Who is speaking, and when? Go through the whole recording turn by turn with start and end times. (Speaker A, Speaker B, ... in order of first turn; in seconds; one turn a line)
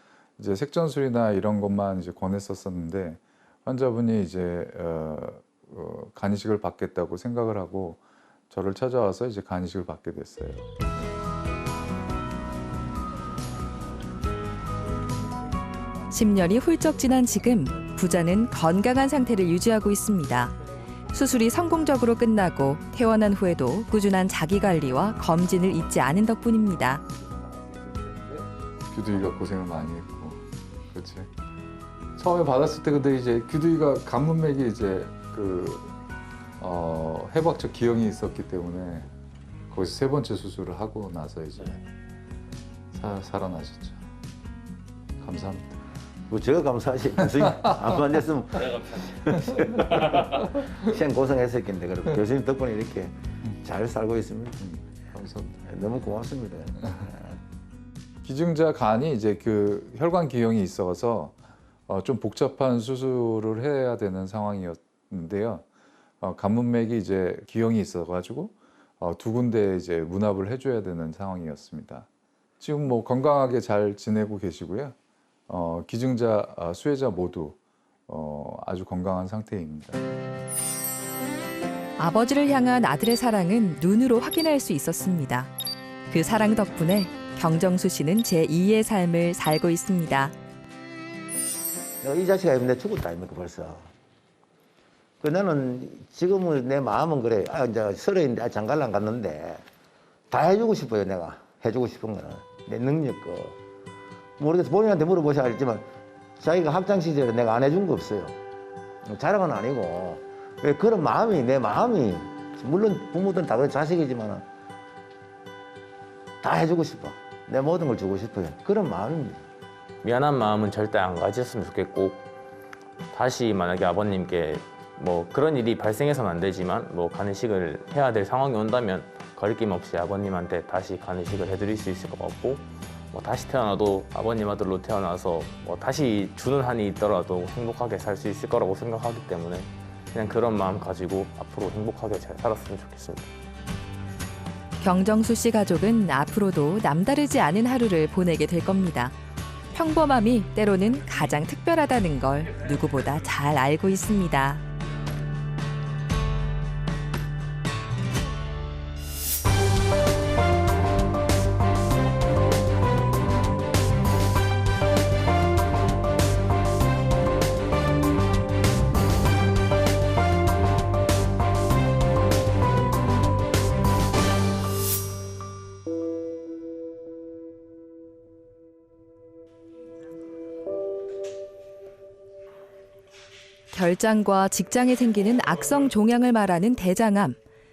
Speaker A: 0.4-10.7
Speaker B: 16.1-20.5
Speaker B: 21.1-27.0
Speaker A: 27.9-31.3
Speaker A: 32.2-35.9
Speaker A: 36.6-39.1
Speaker A: 39.7-41.8
Speaker A: 42.9-44.0
Speaker A: 45.2-45.7
Speaker C: 46.3-54.8
Speaker A: 55.1-55.5
Speaker C: 55.6-57.4
Speaker A: 58.2-61.4
Speaker A: 61.9-65.7
Speaker A: 66.2-72.1
Speaker A: 72.6-75.0
Speaker A: 75.5-77.6
Speaker A: 78.1-80.0
Speaker B: 82.0-85.5
Speaker B: 86.1-90.3
Speaker C: 92.0-93.9
Speaker C: 95.2-99.6
Speaker C: 100.3-103.6
Speaker C: 104.4-105.9
Speaker C: 106.4-108.3
Speaker C: 109.0-114.4
Speaker C: 116.4-119.4
Speaker D: 120.0-122.2
Speaker D: 123.1-143.3
Speaker B: 144.8-149.2
Speaker B: 149.7-154.6
Speaker B: 183.7-187.4